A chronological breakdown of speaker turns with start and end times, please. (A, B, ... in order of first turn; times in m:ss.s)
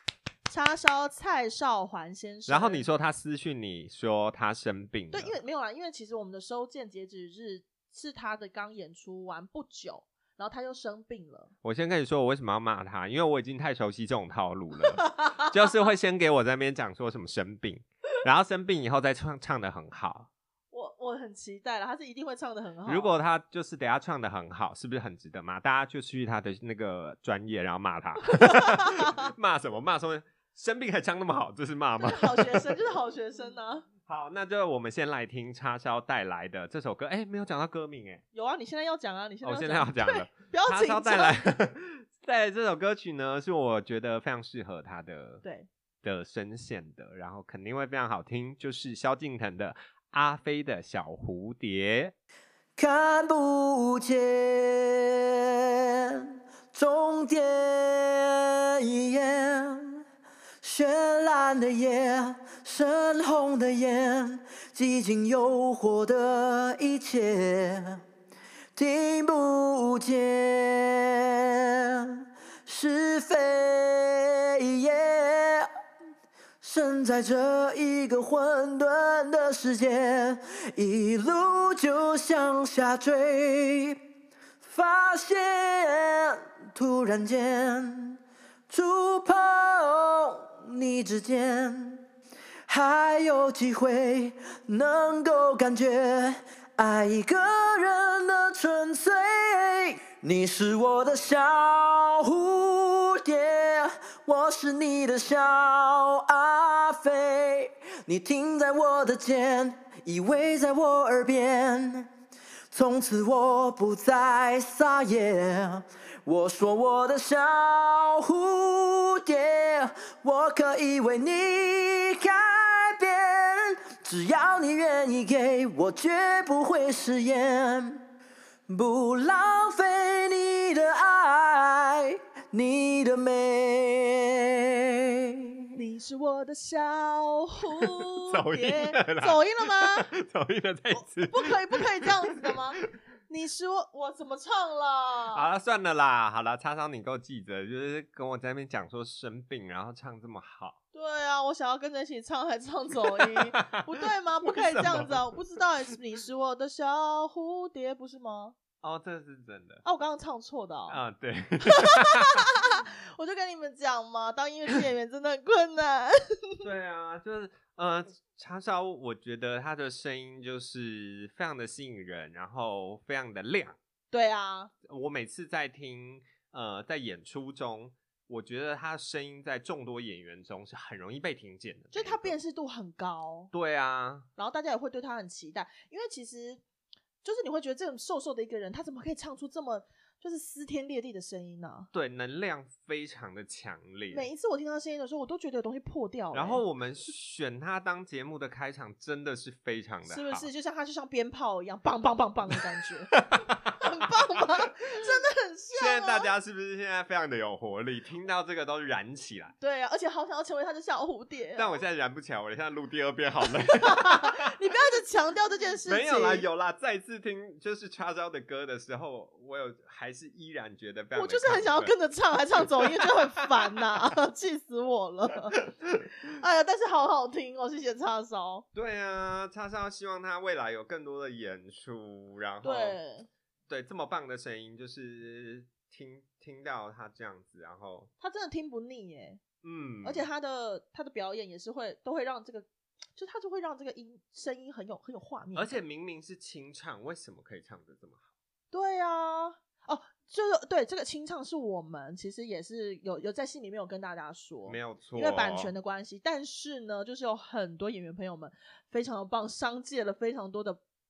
0:00.5-0:02.8 A
0:02.5-0:05.4 B
0:05.1-0:11.5 A
0:11.6-0:20.3 B
0:20.7-0:23.2 A
0:22.8-0:32.7 B
0:28.3-0:29.2 A
0:32.0-0:33.9 A
0:34.0-0:38.2 B
0:38.3-0:41.3 A
0:39.4-0:45.4 B
0:45.4-0:45.7 A
0:46.0-0:52.1 B
0:52.8-1:00.0 C
1:00.6-1:08.0 C
1:08.7-1:15.7 C
1:16.6-1:24.0 C
1:24.6-1:32.0 C
1:32.7-1:52.1 C
1:52.7-2:08.0 C
2:08.7-2:15.6 C
2:15.7-2:20.1 A
2:18.3-2:22.8 B
2:20.9-2:25.4 A
2:25.3-2:30.8 B
2:30.9-2:38.6 A
2:33.2-2:33.9 B
2:34.4-2:35.2 B
2:38.8-2:39.8 B
2:39.8-2:41.0 A
2:40.9-2:42.3 B
2:41.6-2:46.6 A
2:46.6-2:53.8 B
2:54.1-2:54.7 A
2:54.9-3:02.3 B
3:01.9-3:03.5 A
3:03.5-3:04.3 B
3:04.4-3:06.6 A
3:07.2-3:11.9 A
3:11.9-3:14.3 B
3:14.1-3:16.6 A
3:16.3-3:20.5 B
3:20.0-3:26.3 A
3:23.1-3:23.8 B
3:25.8-3:29.5 B
3:29.6-3:31.8 A
3:31.6-3:34.4 B
3:33.6-3:36.4 A
3:35.8-3:41.9 B
3:41.1-3:45.6 A
3:43.0-3:43.4 B
3:46.2-3:48.6 A
3:48.7-3:53.0 B
3:52.6-3:53.3 A
3:53.7-3:58.1 B
3:58.2-3:59.4 A
3:59.6-4:00.3 B
4:00.0-4:05.8 A
4:05.6-4:08.3 B
4:08.7-4:20.8 A
4:14.7-4:15.7 B